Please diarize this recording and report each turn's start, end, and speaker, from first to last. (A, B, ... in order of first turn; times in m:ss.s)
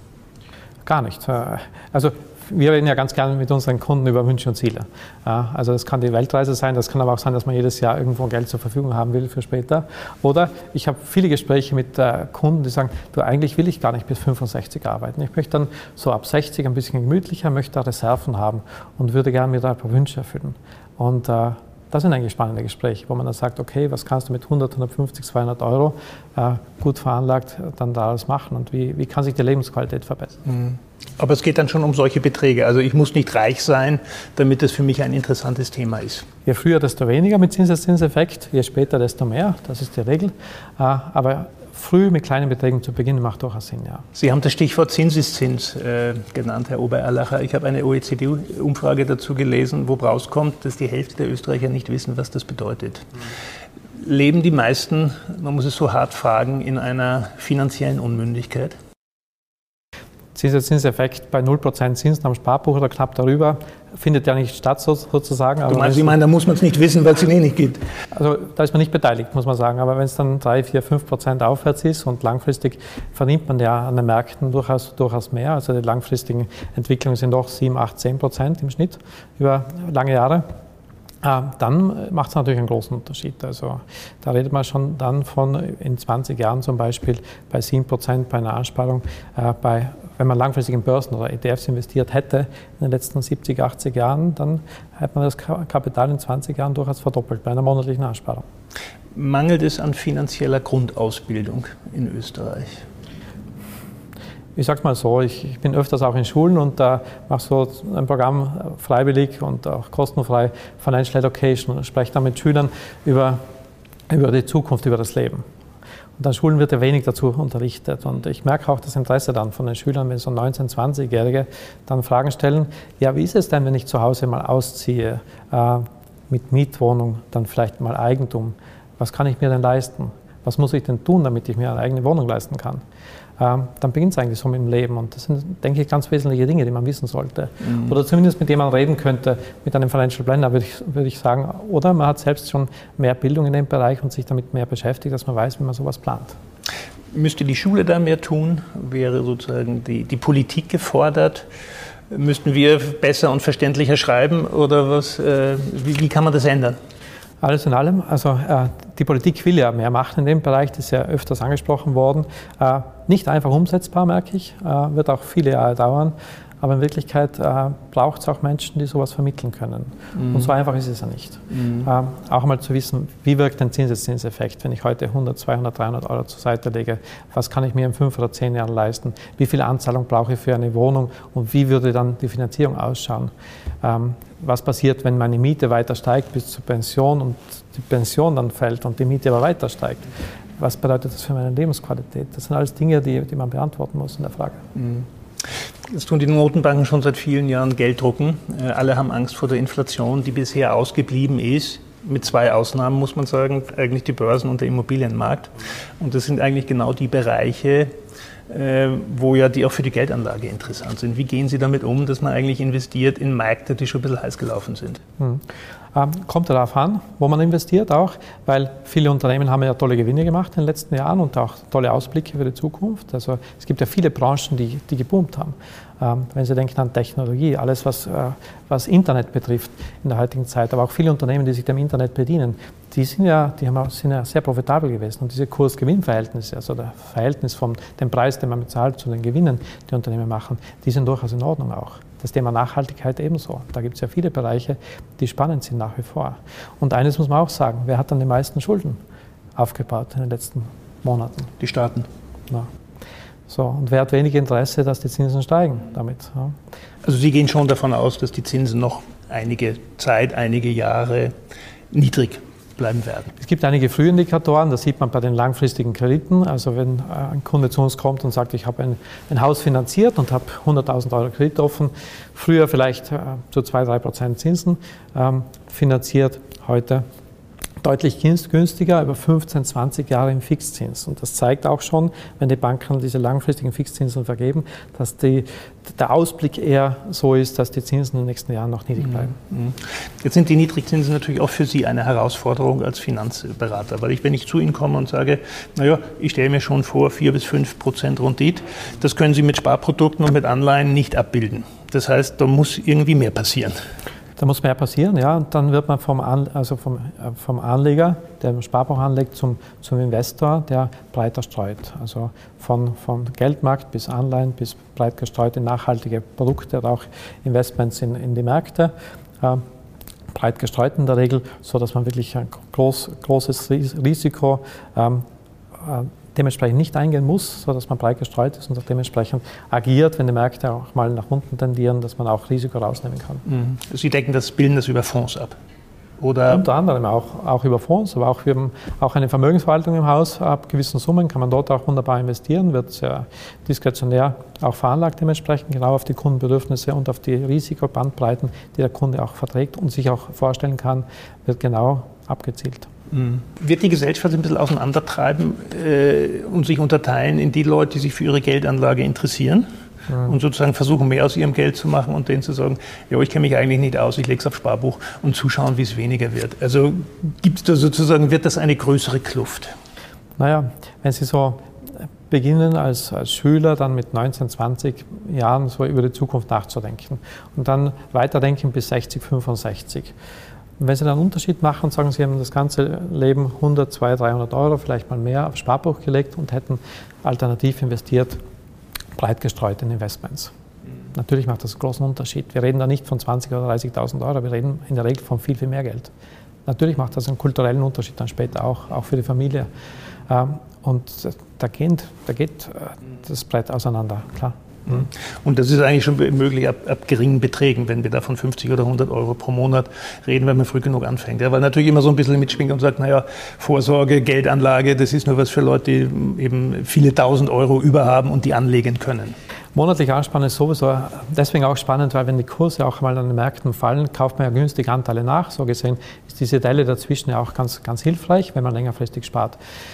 0:00.8-0:30.4 A
0:30.4-0:36.2 B
0:36.4-0:44.0 A
0:44.1-0:53.1 B
0:54.0-0:58.7 B
1:00.3-1:06.2 A
1:05.7-1:07.8 B
1:08.1-1:20.4 A
1:21.2-1:38.4 A
1:39.1-1:42.8 B
1:44.6-1:53.4 A
1:54.1-1:55.4 A
1:56.2-2:12.8 A
2:13.4-2:26.4 A
2:17.6-2:17.9 B
2:27.1-2:31.4 B
2:32.1-2:36.8 B
2:37.4-3:14.6 A
2:50.2-2:50.5 B
3:14.8-3:15.0 B
3:15.9-3:27.9 B
3:28.5-3:35.0 B
3:35.2-4:09.0 A
4:09.6-4:11.5 A
4:11.6-4:12.1 B
4:13.5-4:16.5 A
4:17.0-4:21.3 B
4:21.9-4:23.3 B
4:23.4-4:37.0 A
4:37.8-4:49.4 A
4:49.3-5:03.7 B
5:04.4-5:19.6 A
5:20.3-5:25.2 A
5:25.8-5:33.4 A
5:33.4-5:35.5 B
5:36.2-5:36.6 B
5:36.5-5:52.9 A
5:53.1-5:59.6 B
6:00.2-6:09.7 B
6:10.4-6:11.7 A
6:12.3-6:20.1 A
6:20.8-6:28.4 A
6:29.2-6:30.5 A
6:31.1-6:36.1 A
6:36.6-6:39.7 A
6:40.3-6:45.1 A
6:44.9-6:59.3 B
6:59.7-7:09.6 A